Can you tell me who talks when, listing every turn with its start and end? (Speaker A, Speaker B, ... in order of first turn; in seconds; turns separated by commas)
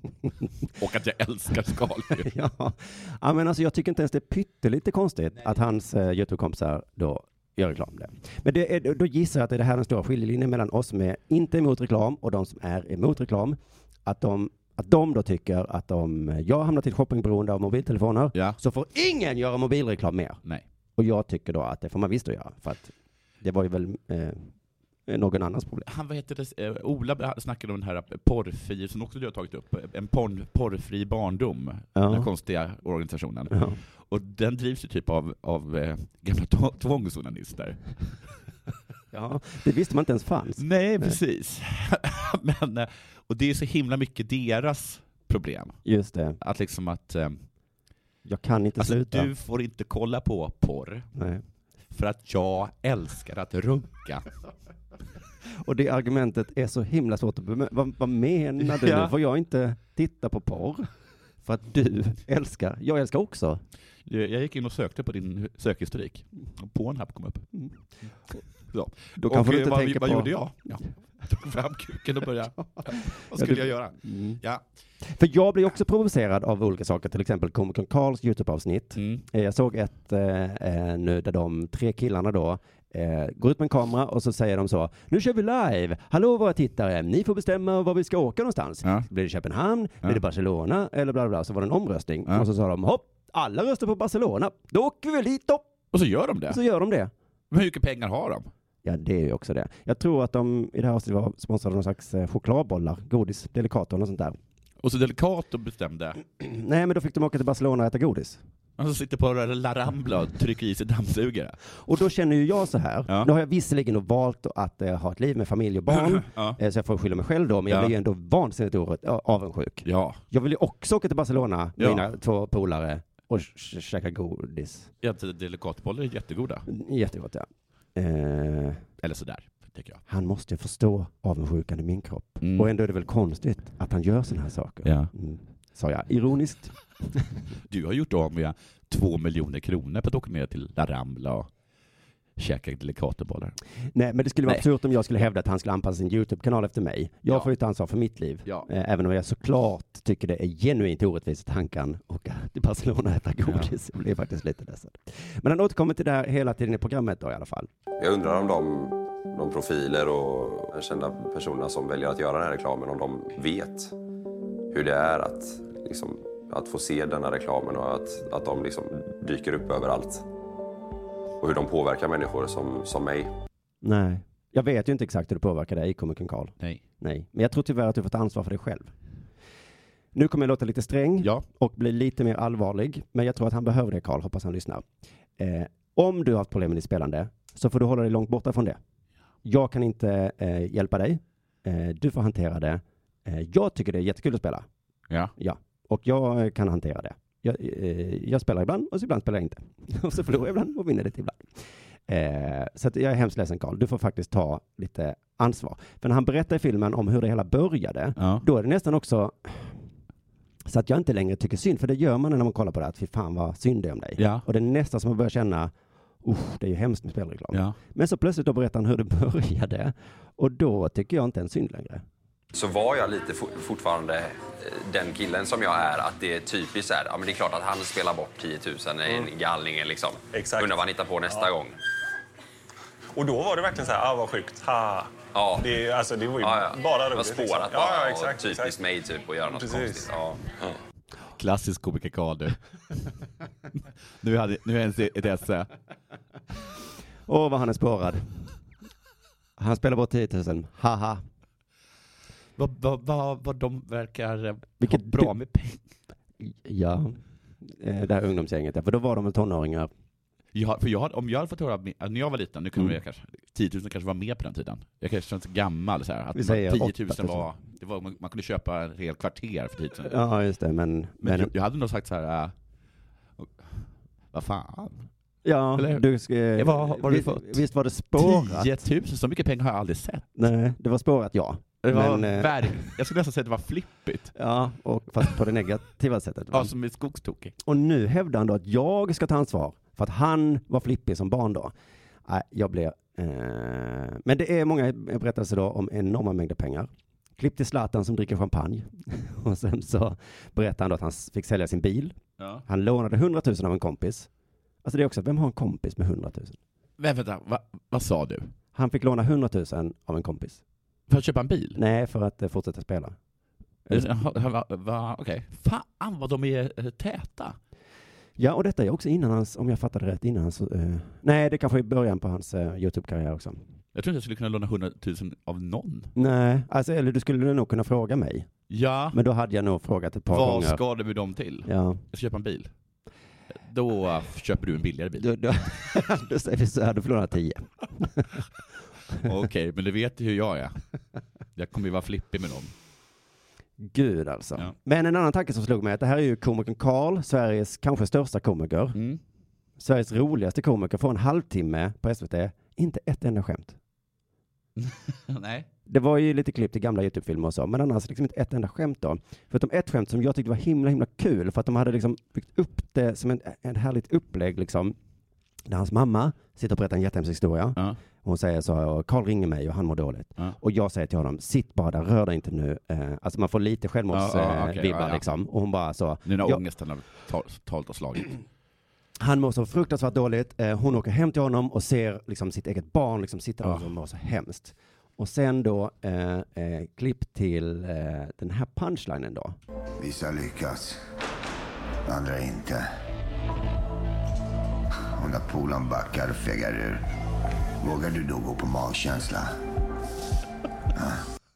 Speaker A: 0.8-2.3, Speaker B: 2.1-20.4, Speaker B: 21.0-24.5, Speaker B: 25.1-25.9, Speaker A: 25.9-38.0, Speaker B: 31.9-32.3, Speaker B: 33.5-33.8, Speaker B: 39.1-41.2, Speaker A: 40.6-45.8, Speaker B: 45.9-46.4, Speaker A: 46.4-47.4, Speaker B: 48.2-49.3, Speaker A: 48.8-51.1, Speaker B: 51.2-51.4, Speaker A: 51.9-54.3, Speaker B: 55.6-60.9, Speaker A: 58.6-59.1, Speaker B: 61.4-63.6, Speaker A: 64.1-67.5, Speaker A: 68.7-74.6, Speaker B: 69.2-70.3, Speaker B: 72.8-74.4, Speaker B: 75.1-95.6, Speaker A: 79.0-79.2, Speaker A: 95.9-96.6, Speaker B: 96.5-97.1, Speaker A: 97.5-98.5, Speaker B: 98.8-104.4, Speaker A: 104.8-106.2, Speaker B: 106.4-108.4, Speaker A: 108.8-111.6, Speaker B: 111.7-124.9, Speaker A: 115.9-116.6, Speaker A: 119.8-120.2, Speaker A: 121.8-122.0, Speaker A: 125.0-126.7, Speaker B: 126.7-128.9, Speaker A: 129.0-130.0, Speaker B: 130.1-137.3, Speaker A: 132.4-132.7, Speaker A: 134.8-135.1, Speaker A: 137.7-141.5, Speaker A: 142.4-143.6, Speaker B: 143.9-157.7, Speaker A: 153.4-153.7, Speaker C: 158.0-163.9, Speaker C: 164.7-170.2, Speaker C: 171.4-173.3, Speaker B: 173.8-178.9, Speaker B: 180.1-184.8, Speaker B: 185.4-188.8, Speaker B: 189.4-194.7, Speaker B: 195.4-209.8, Speaker A: 208.2-208.4, Speaker B: 210.7-215.7, Speaker A: 214.2-214.4, Speaker B: 216.2-222.0, Speaker C: 222.5-231.7, Speaker D: 230.3-230.8, Speaker D: 233.1-238.8, Speaker C: 235.3-235.7, Speaker C: 236.4-240.8, Speaker D: 239.5-240.1, Speaker A: 241.4-242.6, Speaker A: 244.2-245.7, Speaker B: 247.3-248.5, Speaker B: 249.6-251.2, Speaker A: 252.6-255.8, Speaker B: 254.8-255.3, Speaker B: 256.4-259.9, Speaker A: 260.5-270.2, Speaker B: 266.4-267.4, Speaker B: 270.1-271.5, Speaker A: 271.2-272.5, Speaker A: 273.4-275.1, Speaker B: 275.4-278.7, Speaker A: 275.8-276.0, Speaker A: 276.6-277.6, Speaker A: 278.1-280.4, Speaker B: 280.4-282.9, Speaker A: 281.8-284.3, Speaker B: 284.4-286.7, Speaker A: 286.5-287.6, Speaker B: 287.6-291.7, Speaker B: 292.3-304.3, Speaker A: 302.4-302.6, Speaker B: 304.8-306.6, Speaker A: 307.0-308.5, Speaker B: 308.7-310.6, Speaker A: 311.1-311.8, Speaker B: 311.7-313.1, Speaker B: 313.9-314.3, Speaker A: 313.9-317.6, Speaker B: 318.4-323.6, Speaker A: 323.9-326.1, Speaker B: 326.1-328.5, Speaker A: 328.7-329.2, Speaker B: 329.1-330.8, Speaker A: 330.3-332.7, Speaker B: 331.7-332.0, Speaker A: 333.5-335.3, Speaker B: 335.2-338.4, Speaker A: 339.2-340.8, Speaker A: 341.6-342.7, Speaker B: 343.8-349.0, Speaker A: 348.9-349.2, Speaker B: 349.8-353.8, Speaker A: 354.8-355.7, Speaker B: 355.9-364.9, Speaker B: 365.7-376.6, Speaker A: 374.1-375.2, Speaker A: 376.2-378.3, Speaker B: 379.2-389.6, Speaker E: 390.0-391.0, Speaker E: 392.1-392.9, Speaker E: 395.2-397.1, Speaker E: 397.8-399.5, Speaker E: 400.9-401.2